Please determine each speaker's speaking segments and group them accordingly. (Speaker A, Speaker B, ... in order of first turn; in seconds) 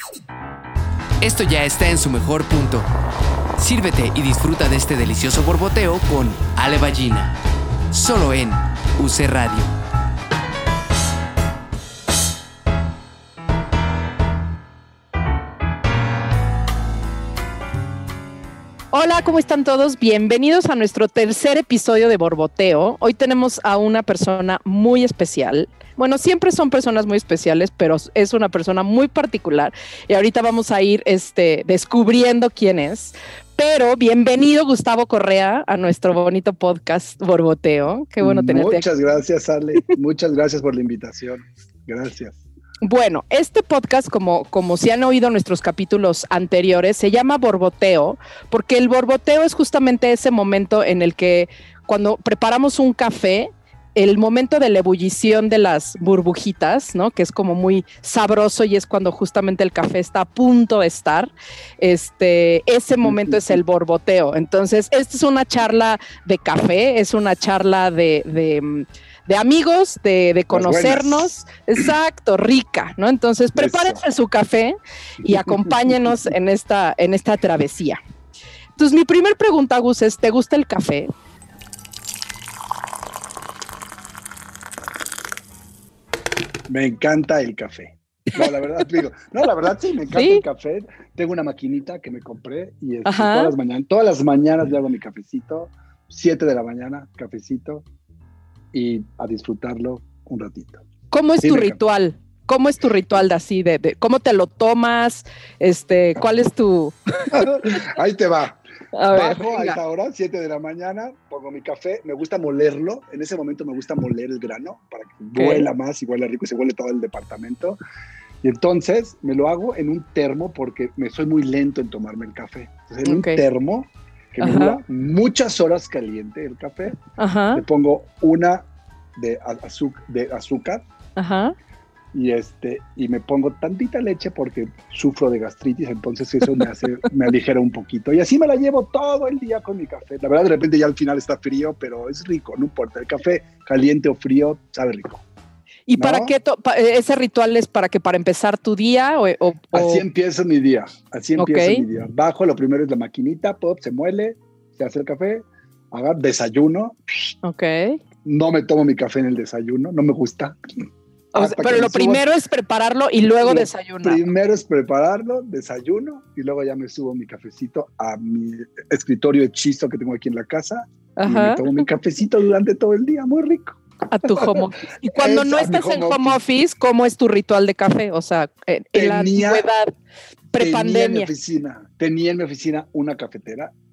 Speaker A: 1.2-2.9, 3.6-7.3, 7.9-9.7
Speaker B: 18.9-38.9, 42.8-78.0, 78.8-81.1, 90.1-90.4, 93.0-93.5, 101.1-107.6, 108.9-109.8, 115.3-115.7, 123.0-123.4, 124.4-124.8, 127.2-127.6, 131.2-131.5, 145.9-150.0, 151.4-151.8, 157.4-158.0, 161.3-164.2, 171.2-171.8, 174.1-179.9, 180.5-181.3
Speaker C: 38.2-42.4, 63.0-63.6, 70.5-71.3, 73.6-74.0, 75.5-76.1, 86.7-97.8, 98.7-100.8, 101.4-101.8, 107.3-108.6, 109.1-117.8, 118.4-127.0, 127.5-130.8, 132.1-145.2, 146.0-146.3, 149.7-157.3, 158.2-162.2, 163.4-176.4, 178.9-179.7, 180.6-183.7